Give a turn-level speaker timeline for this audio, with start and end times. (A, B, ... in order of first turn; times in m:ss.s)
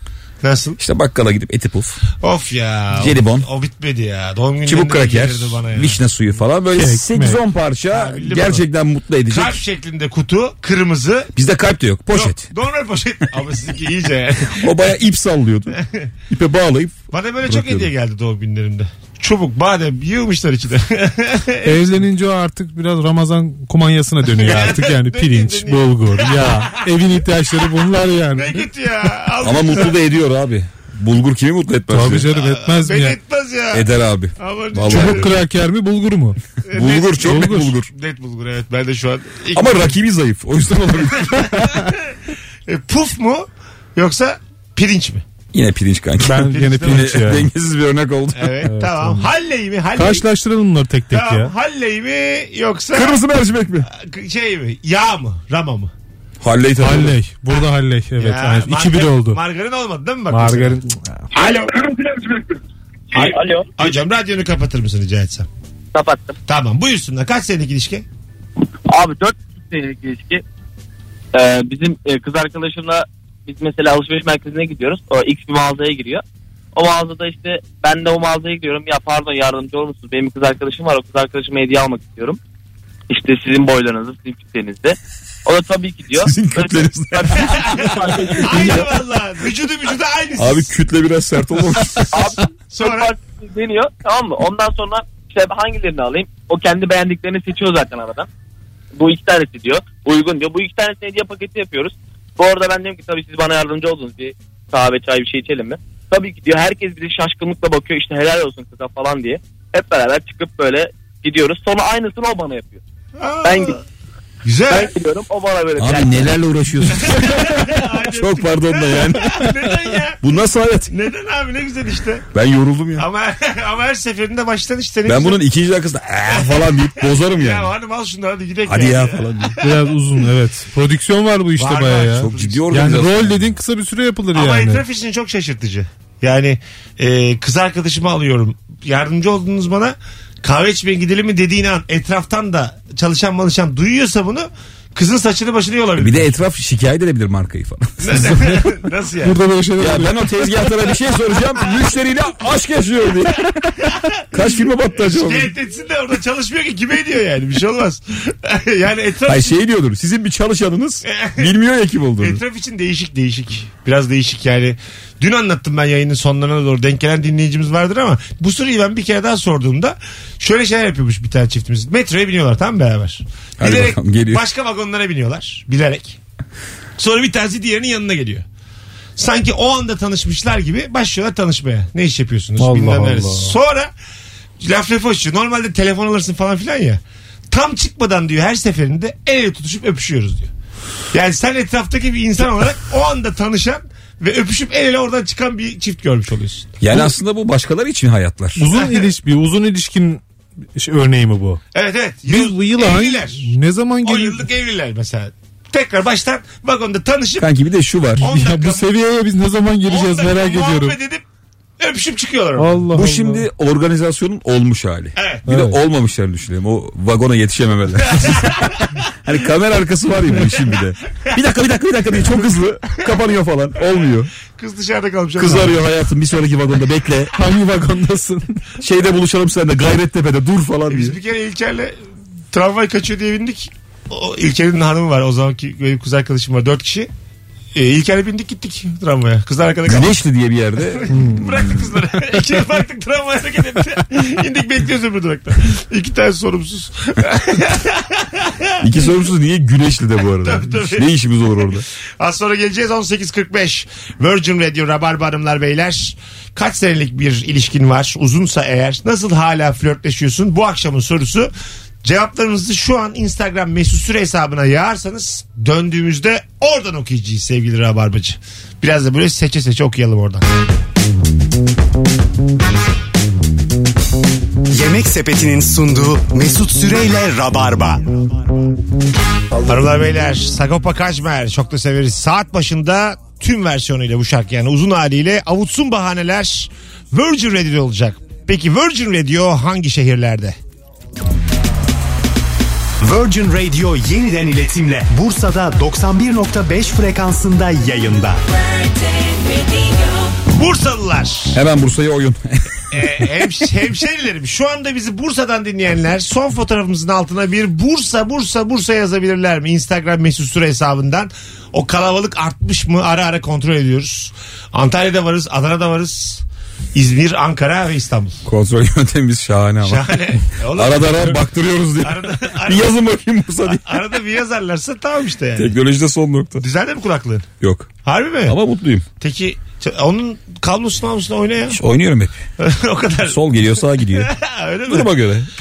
0:00.4-0:00.8 A
0:00.8-0:02.0 B
0:02.2-0:06.0 A
0:03.0-0:03.5 B
0:04.6-0:09.6 B
0:06.8-0:07.4 C
0:07.9-0:08.7 A
0:09.3-0:11.3 A
0:11.4-0:12.5 B
0:12.1-0:14.6 A
0:14.6-0:15.8 B
0:15.8-0:16.0 A
0:16.3-0:17.9 B
0:17.1-0:21.9 A
0:21.6-0:28.7 C
0:24.3-0:27.8 A
0:28.3-0:30.0 A
0:29.4-0:32.3 B
0:31.9-0:33.2 C
0:32.3-0:35.4 A
0:33.7-0:35.3 B
0:34.9-0:36.4 C
0:36.6-0:40.0 A
0:36.7-0:37.9 B
0:37.2-0:37.7 C
0:39.5-0:41.7 B
0:41.3-0:42.1 A
0:42.7-0:45.2 A
0:45.5-0:48.7 B
0:46.2-0:47.5 C
0:46.5-0:47.2 A
0:48.4-0:50.3 A
0:48.6-0:49.3 C
0:50.0-0:51.5 C
0:51.1-0:53.2 A
0:52.9-0:53.9 B
0:53.9-0:55.9 A
0:56.4-0:57.2 B
0:56.8-0:59.4 C
0:58.2-1:00.8 A
1:00.3-1:01.2 C
1:01.3-1:02.3 A
1:03.1-1:05.5 A
1:03.1-1:03.7 D
1:05.9-1:06.4 D
1:06.5-1:08.0 A
1:08.9-1:10.4 D
1:11.3-1:16.2 D
1:16.8-1:22.4 D
1:23.1-1:28.8 D
1:26.2-1:28.9 B
1:28.4-1:30.7 A
1:30.4-1:32.1 B
1:32.1-1:38.3 D
1:32.7-1:33.1 A
1:39.0-1:52.8 D
1:53.2-1:53.8 A
1:53.4-1:53.8 D
1:54.4-1:54.9 A
1:54.7-1:56.2 D
1:55.8-2:00.9 B
1:56.9-2:00.2 A
2:00.9-2:02.3 A
2:02.3-2:03.1 B
2:03.0-2:05.4 A
2:05.1-2:07.7 B
2:06.3-2:10.0 A
2:08.7-2:09.6 B
2:09.6-2:14.8 C
2:11.6-2:13.0 A
2:12.2-2:13.5 B
2:14.3-2:26.3 A
2:26.0-2:28.6 B
2:28.0-2:29.4 A
2:29.2-2:30.7 C
2:29.8-2:33.4 B
2:33.8-2:39.6 A
2:34.3-2:35.5 B
2:39.3-2:42.4 B
2:41.0-2:41.5 A
2:42.2-2:56.2 A
2:53.6-2:54.4 B
2:57.0-2:58.4 A
2:59.2-3:03.9 A
3:02.6-3:03.6 C
3:04.6-3:10.5 A
3:11.1-3:16.8 A
3:16.8-3:18.7 B
3:18.6-3:20.2 C
3:18.7-3:19.1 A
3:20.8-3:21.6 C
3:21.7-3:23.5 A
3:22.3-3:24.4 C
3:24.0-3:27.5 A
3:27.4-3:28.2 B
3:28.2-3:28.9 A
3:28.2-3:31.0 C
3:29.8-3:31.2 A
3:31.8-3:32.9 A
3:32.6-3:33.4 C
3:32.9-3:44.3 B
3:35.2-3:35.4 A
3:35.5-3:35.8 C
3:38.1-3:38.7 A
3:44.6-3:45.8 A
3:45.4-3:47.3 B
3:47.3-3:48.6 C
3:48.8-3:51.2 B
3:50.9-3:52.0 A
3:52.5-3:57.1 A
3:57.7-4:00.2 A
3:59.9-4:01.1 B
4:01.0-4:09.1 A
4:01.1-4:01.4 C
4:08.8-4:11.9 B
4:10.4-4:11.1 A
4:12.2-4:21.5 A
4:22.0-4:30.4 A
4:34.7-4:38.1 E
4:39.7-4:50.6 A
4:53.0-4:58.4 E
5:00.5-5:01.6 A
5:01.5-5:03.1 B
5:02.9-5:16.4 A
5:16.9-5:18.4 A
5:18.4-5:23.8 B
5:19.8-5:21.4 A
5:22.0-5:22.9 A
5:23.7-5:25.8 A
5:25.6-5:26.7 B
5:26.6-5:27.5 A
5:27.6-5:27.9 B
5:28.0-5:28.6 A
5:28.5-5:29.0 B
5:29.2-5:31.8 A
5:31.7-5:32.4 B
5:32.6-5:33.4 A
5:33.3-5:34.3 B
5:34.1-5:35.1 A
5:34.9-5:35.5 B